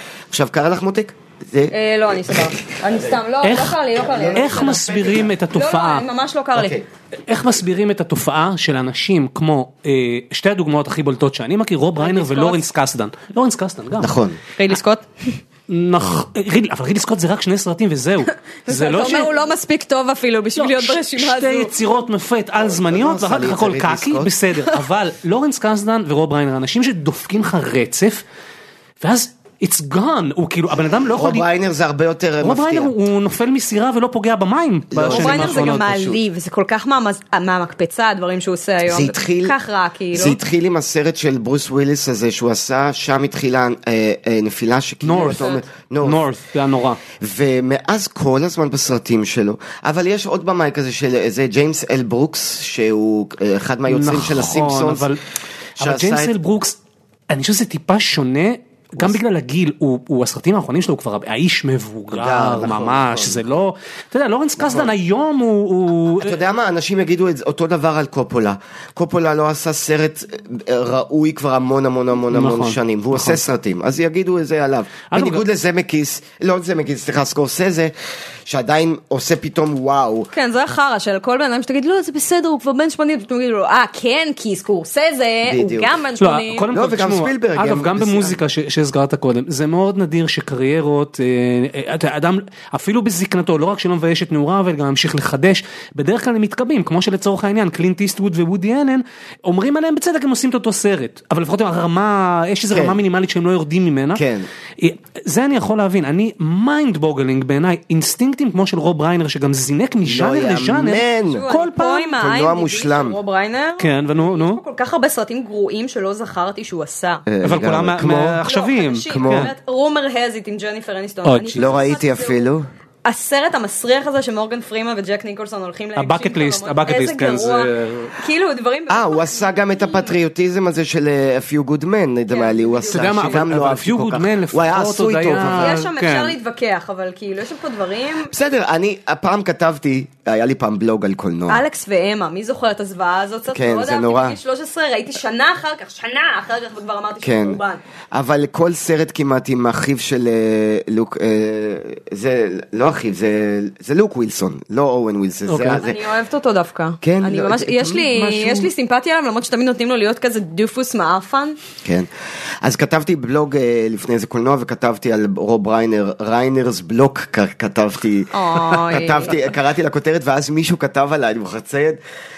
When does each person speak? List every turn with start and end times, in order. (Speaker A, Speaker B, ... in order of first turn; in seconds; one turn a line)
Speaker A: 0.3-1.7
Speaker B: 1.7-6.8
Speaker C: 3.4-3.8
Speaker A: 4.0-5.3
Speaker C: 4.3-6.0
Speaker A: 6.5-6.8
Speaker C: 7.3-14.1
Speaker B: 12.0-12.7
Speaker A: 14.0-14.4
Speaker B: 14.6-15.4
Speaker C: 15.7-19.3
Speaker B: 18.6-21.8
Speaker C: 20.6-28.2
Speaker A: 22.6-24.3
Speaker C: 29.0-31.4
Speaker A: 31.1-32.9
Speaker C: 32.4-35.8
Speaker A: 34.9-36.2
Speaker B: 35.1-40.4
Speaker A: 38.8-39.5
Speaker A: 40.1-46.2
Speaker C: 45.0-45.5
Speaker B: 45.1-45.6
Speaker C: 46.0-47.0
Speaker A: 47.2-55.1
Speaker C: 53.9-55.2
Speaker A: 55.8-56.3
Speaker C: 55.8-56.8
Speaker C: 57.3-66.3
Speaker A: 62.1-63.4
Speaker A: 64.6-64.9
Speaker A: 66.2-77.9
Speaker C: 72.3-73.4
Speaker C: 75.1-75.4
Speaker A: 78.5-80.3
Speaker B: 80.3-86.7
Speaker A: 85.4-85.9
Speaker C: 86.2-104.2
Speaker A: 86.7-88.4
Speaker A: 102.7-103.0
Speaker A: 104.1-104.5
Speaker C: 104.8-112.1
Speaker A: 110.0-111.5
Speaker B: 111.3-117.2
Speaker A: 112.1-113.2
Speaker C: 113.8-114.6
Speaker A: 117.3-118.4
Speaker C: 117.4-119.5
Speaker B: 118.5-122.4
Speaker A: 119.1-119.5
Speaker C: 121.2-121.7
Speaker A: 121.5-122.7
Speaker B: 123.0-130.1
Speaker C: 126.0-128.1
Speaker A: 128.9-135.8
Speaker B: 132.3-133.5
Speaker C: 132.9-136.3
Speaker B: 135.3-138.3
Speaker A: 138.3-141.6
Speaker B: 141.5-147.8
Speaker A: 143.5-144.4
Speaker A: 147.2-147.6
Speaker A: 148.1-156.0
Speaker C: 155.4-155.8
Speaker B: 155.7-161.6
Speaker A: 157.0-158.7
Speaker A: 162.6-172.0
Speaker B: 168.3-169.4